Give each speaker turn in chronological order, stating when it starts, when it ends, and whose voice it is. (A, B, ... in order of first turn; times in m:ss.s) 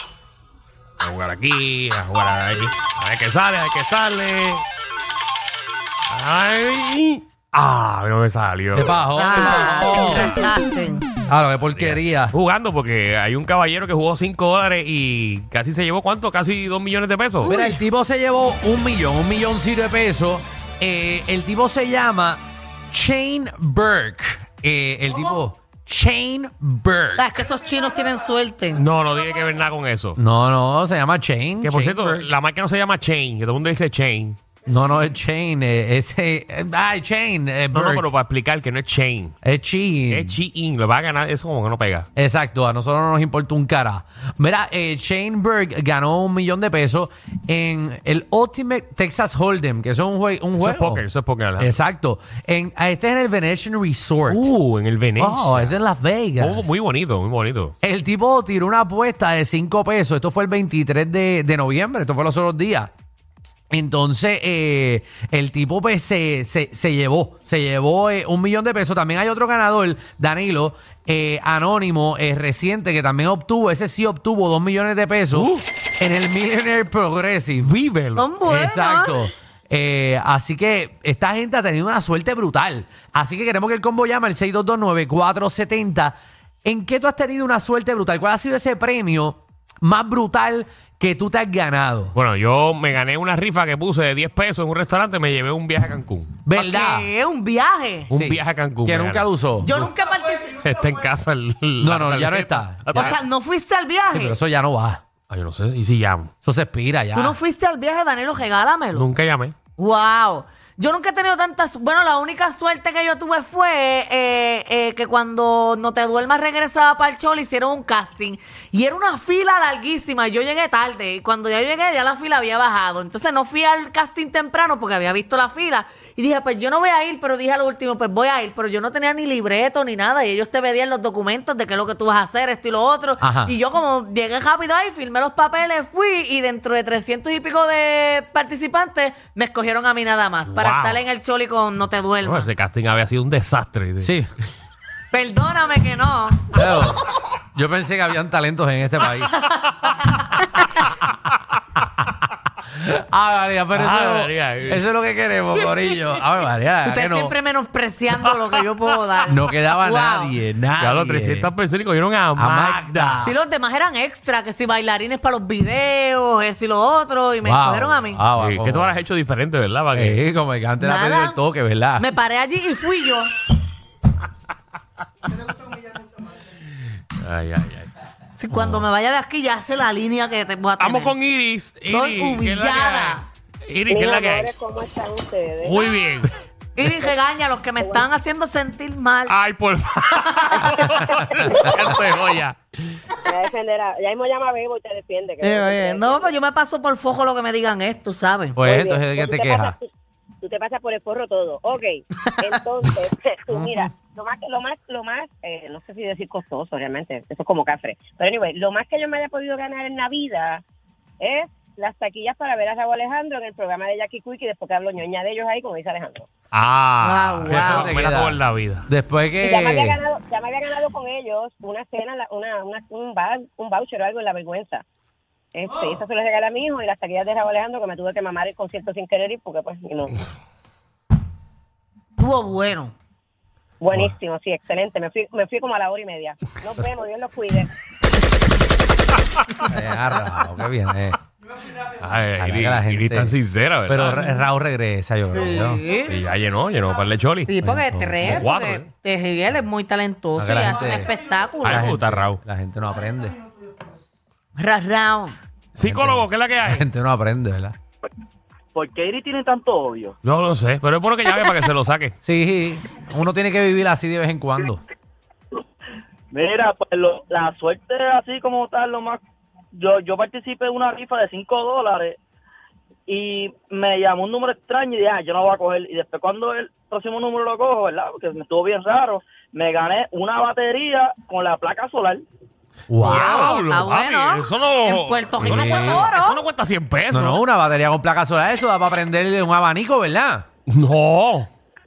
0:01.0-0:04.6 A
0:06.1-0:09.0 A
0:08.7-0:10.4 B
0:09.2-0:11.1 C
0:11.3-0:12.4 B
0:11.7-0:17.5 A
0:17.4-0:27.3 B
0:27.2-0:28.8 C
0:28.8-0:30.2 A
0:30.2-0:32.3 B
0:31.6-0:34.4 A
0:34.7-0:38.1 B
0:37.7-0:39.3 A
0:39.4-0:40.4 B
0:40.1-0:42.1 A
0:42.2-0:51.1 B
0:50.6-0:51.8 A
0:51.6-0:54.5 B
0:54.3-0:55.8 A
0:55.2-0:56.7 B
0:56.4-0:57.7 A
0:57.8-1:02.9 B
1:03.7-1:17.7 B
1:15.3-1:15.7 A
1:17.6-1:18.3 A
1:18.2-1:19.2 C
1:18.5-1:32.2 B
1:32.2-1:36.4 A
1:36.4-1:37.1 B
1:36.6-1:38.1 C
1:38.1-1:39.3 A
1:38.1-1:39.7 B
1:39.6-1:40.6 C
1:40.6-1:43.2 A
1:41.8-1:43.2 B
1:42.9-1:44.4 C
1:44.1-1:45.0 B
1:45.3-1:46.3 A
1:46.4-1:47.4 B
1:47.2-1:49.1 C
1:48.9-1:49.6 A
1:49.8-2:22.5 C
2:13.2-2:13.6 B
2:20.5-2:21.0 A
2:22.2-2:24.1 A
2:24.0-2:24.3 B
2:25.1-2:26.6 C
2:26.5-2:29.3 B
2:29.6-2:30.2 C
2:32.7-2:37.3 B
2:33.8-2:34.8 A
2:36.8-2:40.4 C
2:38.3-2:38.6 A
2:39.3-2:41.5 B
2:40.8-2:43.3 A
2:42.4-2:43.3 B
2:43.2-2:48.2 C
2:47.4-2:49.0 B
2:48.4-2:50.2 A
2:49.9-2:52.1 B
2:50.8-2:51.4 C
2:52.0-2:53.3 C
2:57.2-2:57.9 A
2:58.4-3:01.2 C
2:58.6-2:58.8 A
3:00.8-3:04.5 A
3:01.9-3:03.2 C
3:03.9-3:05.9 D
3:05.6-3:06.3 A
3:06.8-3:09.3 C
3:07.8-3:08.1 D
3:09.3-3:13.0 A
3:13.2-3:16.4 D
3:15.4-3:18.6 C
3:18.6-3:19.8 B
3:18.6-3:19.9 D
3:20.4-3:30.6 D
3:22.3-3:22.6 C
3:23.5-3:23.8 C
3:31.2-3:36.3 D
3:36.5-3:38.8 A
3:37.0-3:37.9 C
3:37.5-3:40.0 B
3:39.4-3:44.8 D
3:45.5-3:50.2 D
3:52.2-3:52.9 C
3:53.8-3:57.7 D
3:59.6-4:01.2 B
4:02.0-4:04.2 A
4:02.4-4:03.4 B
4:03.9-4:05.8 B
4:05.3-4:06.2 C
4:06.1-4:07.5 A
4:07.5-4:11.9 C
4:07.6-4:08.4 B
4:08.2-4:08.9 A
4:10.4-4:11.1 B
4:11.6-4:12.4 A
4:11.6-4:13.4 B
4:14.6-4:15.4 C
4:15.8-4:16.8 A
4:15.8-4:17.8 B
4:18.8-4:20.2 E
4:20.2-4:22.1 A
4:22.2-4:24.8 B
4:26.3-4:29.2 E
4:29.7-4:32.2 E
4:33.1-4:42.2 E
4:42.9-4:43.5 B
4:43.0-4:46.4 C
4:43.0-4:47.4 A
4:45.4-4:46.1 B
4:47.1-4:50.5 B
4:50.7-4:51.5 A